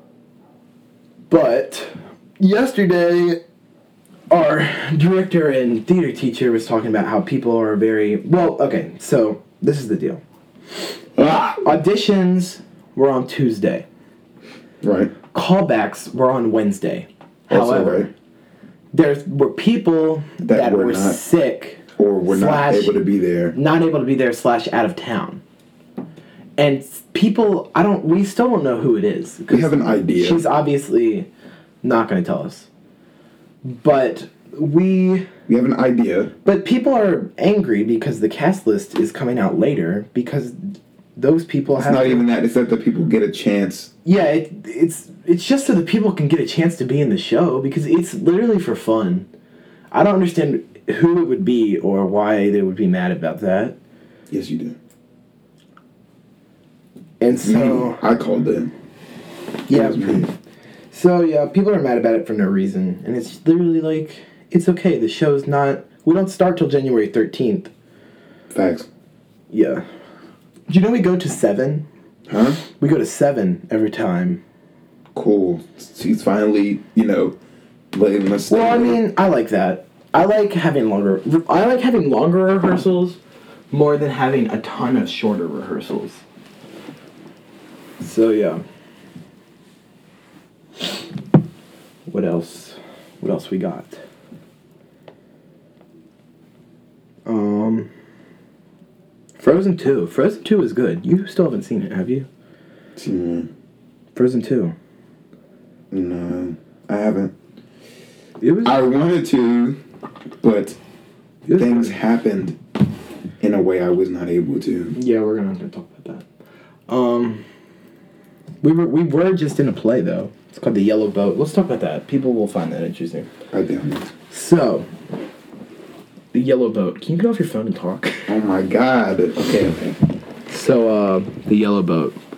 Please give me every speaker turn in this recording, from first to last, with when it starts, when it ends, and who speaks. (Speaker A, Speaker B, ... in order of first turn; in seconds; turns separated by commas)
Speaker A: 1.3-3.4, Speaker A: 4.3-10.2, Speaker B: 11.2-11.6, Speaker A: 11.6-13.8, Speaker B: 14.8-15.1, Speaker A: 15.3-18.1, Speaker B: 17.5-18.1, Speaker A: 18.9-22.9, Speaker B: 20.4-21.2, Speaker B: 21.9-23.5, Speaker A: 23.5-25.4, Speaker A: 26.6-31.3, Speaker B: 29.5-30.4, Speaker A: 31.8-32.7, Speaker A: 33.6-35.3, Speaker B: 35.5-36.3, Speaker A: 36.4-42.3, Speaker B: 41.7-43.9, Speaker A: 44.0-49.3, Speaker A: 49.9-53.8, Speaker B: 54.3-54.8, Speaker A: 57.2-58.0, Speaker B: 57.3-58.7, Speaker B: 59.7-60.3, Speaker A: 59.7-60.3, Speaker A: 60.9-67.7, Speaker B: 68.5-68.9, Speaker A: 69.5-69.8, Speaker A: 70.7-71.9, Speaker B: 72.3-72.6, Speaker A: 72.8-74.4, Speaker B: 75.1-77.3, Speaker B: 77.9-79.0, Speaker A: 78.5-83.2, Speaker A: 83.7-86.2, Speaker A: 88.0-88.6, Speaker A: 92.1-94.0, Speaker A: 97.2-97.9, Speaker A: 99.4-102.3, Speaker B: 103.0-103.5, Speaker A: 104.1-104.7, Speaker B: 105.9-107.3, Speaker A: 108.4-108.8, Speaker B: 108.6-109.8, Speaker B: 110.4-110.8, Speaker A: 111.5-111.9, Speaker B: 111.5-112.6, Speaker B: 113.4-115.0, Speaker A: 114.9-116.2, Speaker A: 116.9-117.4, Speaker A: 118.6-123.3, Speaker B: 123.5-124.1, Speaker A: 124.3-124.9, Speaker A: 126.3-128.3, Speaker B: 128.3-130.0, Speaker A: 130.5-132.2